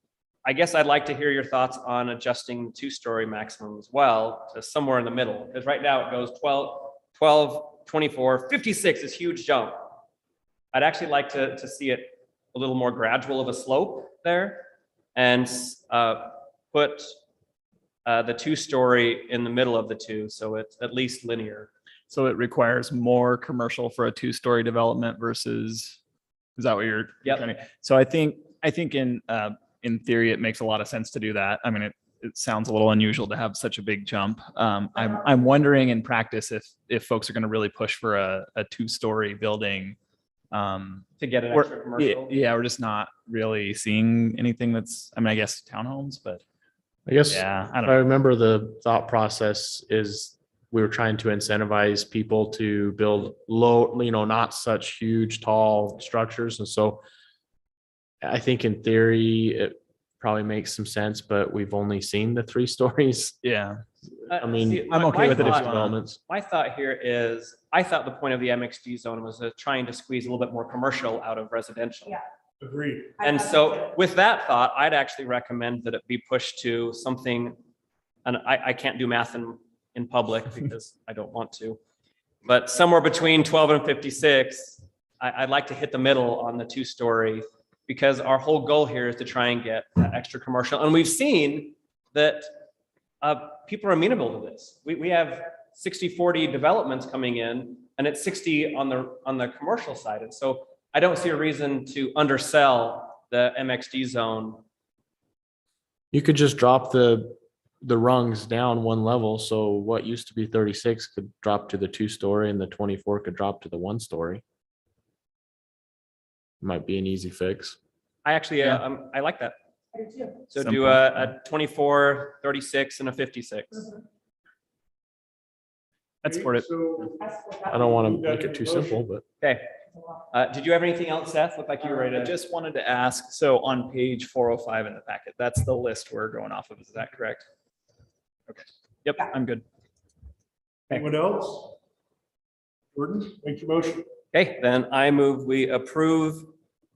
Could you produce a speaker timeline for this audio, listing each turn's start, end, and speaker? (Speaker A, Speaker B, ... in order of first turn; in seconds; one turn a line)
Speaker A: 0.5-9.9
Speaker A: 10.7-17.1
Speaker A: 18.1-21.7
Speaker B: 22.1-26.0
Speaker B: 26.6-40.0
Speaker C: 35.0-35.3
Speaker B: 40.5-46.4
Speaker A: 41.2-42.3
Speaker D: 47.1-57.0
Speaker B: 47.3-48.0
Speaker D: 58.2-63.4
Speaker B: 63.4-63.8
Speaker A: 64.3-72.2
Speaker D: 64.4-66.2
Speaker B: 64.9-66.0
Speaker E: 72.6-73.2
Speaker C: 73.2-74.0
Speaker A: 73.2-77.6
Speaker A: 78.2-81.8
Speaker A: 82.4-92.5
Speaker A: 93.2-104.6
Speaker D: 106.1-114.4
Speaker D: 116.6-117.8
Speaker A: 118.2-119.5
Speaker C: 119.9-120.5
Speaker A: 120.5-123.9
Speaker B: 120.6-121.3
Speaker E: 126.2-127.2
Speaker A: 126.2-126.7
Speaker C: 127.2-128.2
Speaker D: 127.7-129.2
Speaker E: 128.0-129.0
Speaker A: 129.4-129.7
Speaker C: 129.9-130.3
Speaker A: 130.3-132.3
Speaker B: 131.8-137.4
Speaker B: 138.5-139.6
Speaker E: 140.9-141.8
Speaker E: 142.9-144.1
Speaker A: 144.3-146.5